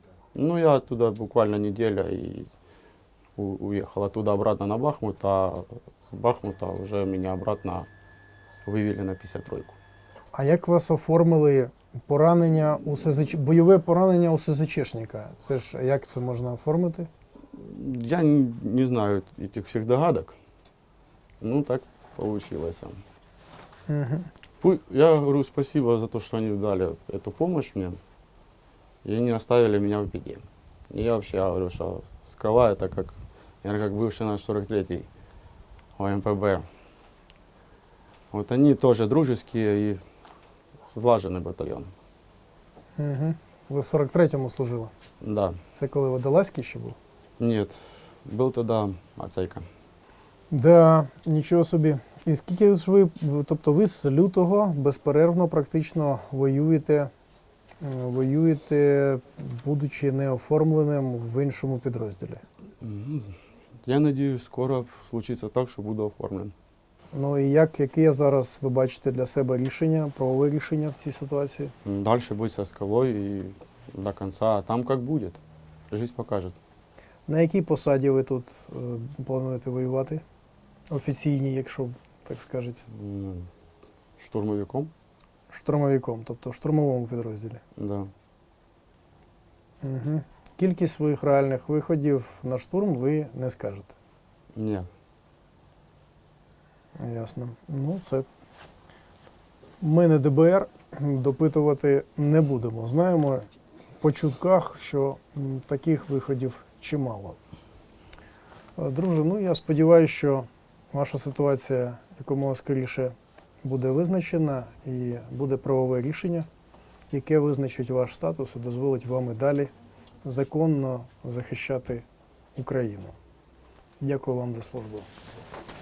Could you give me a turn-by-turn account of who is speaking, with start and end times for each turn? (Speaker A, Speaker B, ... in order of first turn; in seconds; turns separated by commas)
Speaker A: 0.3-2.5, Speaker A: 3.4-7.9, Speaker A: 8.7-9.8, Speaker B: 10.3-17.1, Speaker A: 17.5-20.4, Speaker A: 21.4-23.0, Speaker B: 23.9-24.3, Speaker A: 24.6-28.0, Speaker A: 29.0-35.1, Speaker A: 36.0-36.6, Speaker A: 38.3-40.0, Speaker A: 40.9-41.9, Speaker B: 43.0-44.9, Speaker A: 45.2-45.6, Speaker B: 45.7-47.0, Speaker A: 47.4-49.7, Speaker B: 50.5-57.1, Speaker B: 57.8-62.4, Speaker A: 62.8-66.5, Speaker B: 67.1-71.7, Speaker A: 71.8-76.6, Speaker B: 77.3-80.2, Speaker B: 80.9-82.9, Speaker A: 82.9-83.5, Speaker A: 84.2-84.9, Speaker B: 85.5-87.6, Speaker A: 87.8-88.1, Speaker B: 89.8-94.0, Speaker A: 94.5-94.9, Speaker B: 97.0-98.3, Speaker B: 99.8-103.5, Speaker B: 104.0-107.4, Speaker B: 108.8-116.5, Speaker B: 117.1-119.7, Speaker B: 120.2-122.0, Speaker B: 122.6-123.2, Speaker B: 124.0-125.1